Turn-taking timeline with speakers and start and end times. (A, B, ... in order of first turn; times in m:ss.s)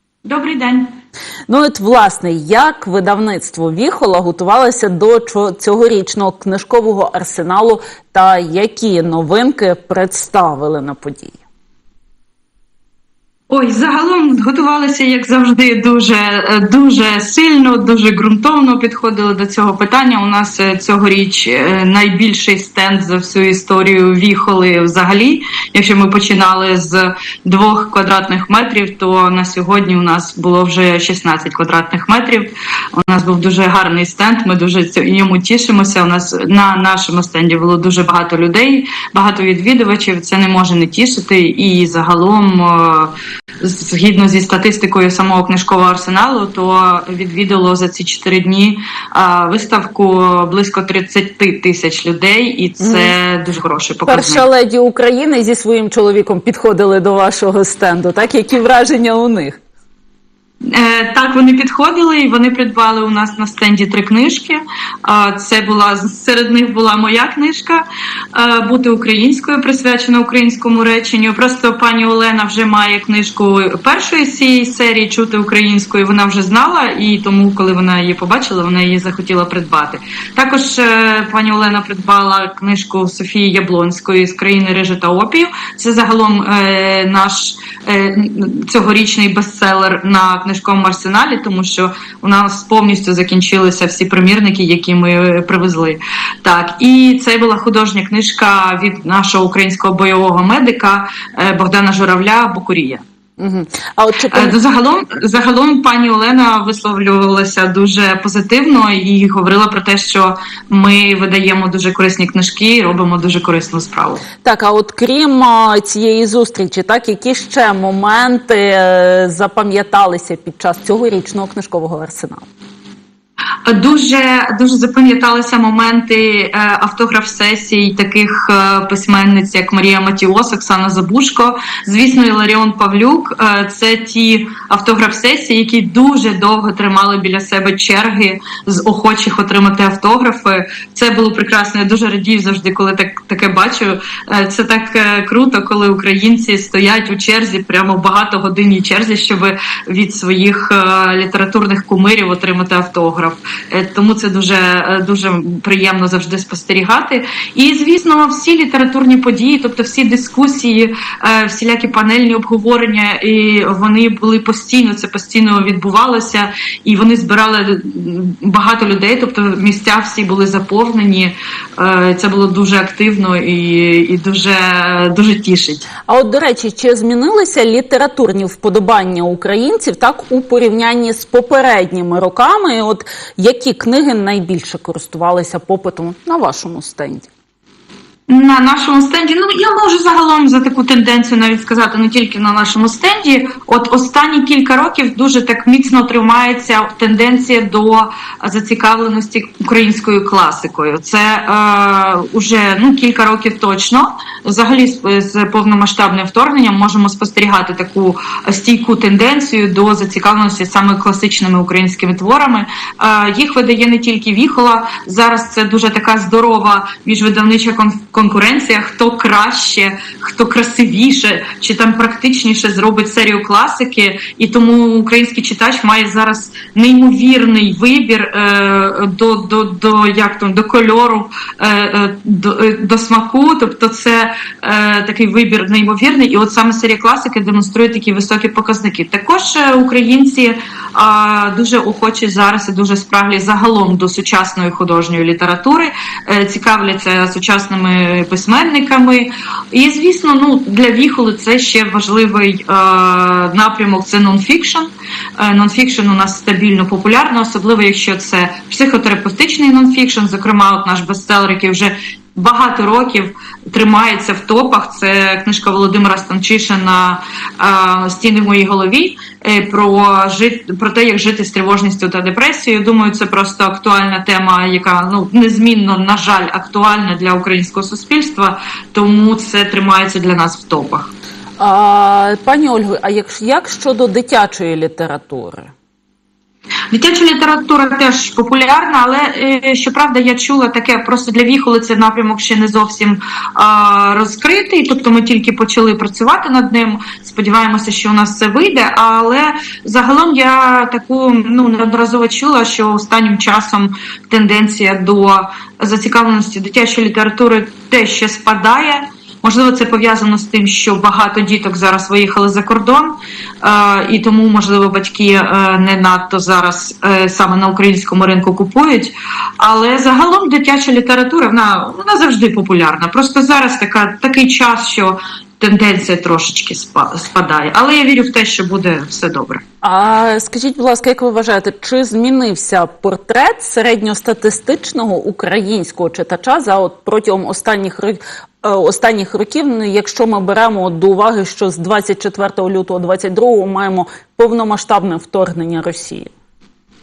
0:00.2-0:01.0 A
0:01.5-0:11.4 B
0:13.5-0:54.4 A
0:52.8-0:53.1 B
0:54.1-0:59.6 B
1:00.7-1:43.0 A
1:43.4-1:44.6 B
1:44.3-1:54.2 A
1:54.4-2:02.5 B
2:03.7-2:55.9 A
2:56.1-3:07.3 B
3:08.3-4:41.1 A
4:41.6-4:45.7 B
4:46.9-5:29.6 A
5:29.8-5:46.3 B